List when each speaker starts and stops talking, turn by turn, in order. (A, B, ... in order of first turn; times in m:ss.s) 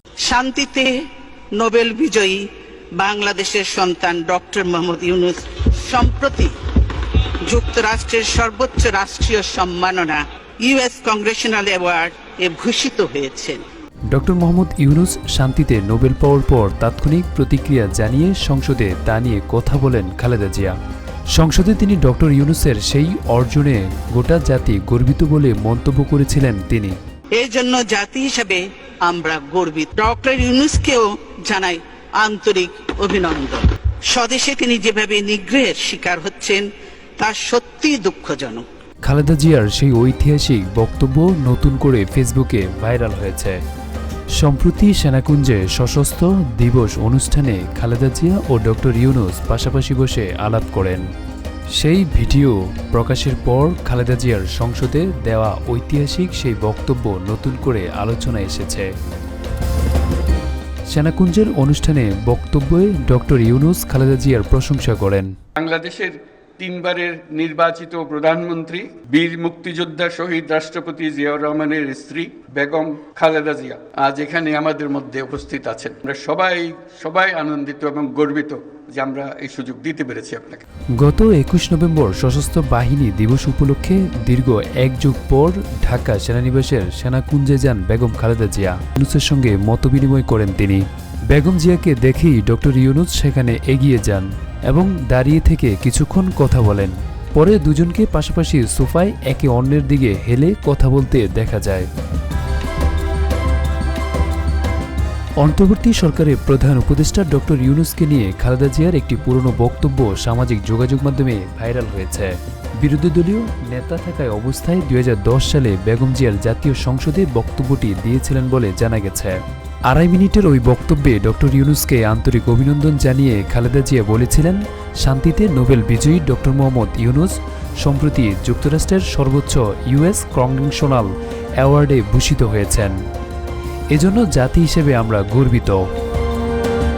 0:00.3-0:00.9 A
0:01.6-0:02.5 A
0:03.0-0:13.6 A
0:14.1-0:20.8 B
0:21.4-0:27.0 B
0:27.4-0:36.7 A
0:37.2-0:38.6 A
0:39.1-0:43.6 B
0:44.4-0:51.1 B
0:51.8-0:58.9 B
1:00.9-1:05.4 B
1:05.6-1:20.6 C
1:21.0-1:41.9 B
1:45.4-2:13.0 B
2:13.9-2:15.8 B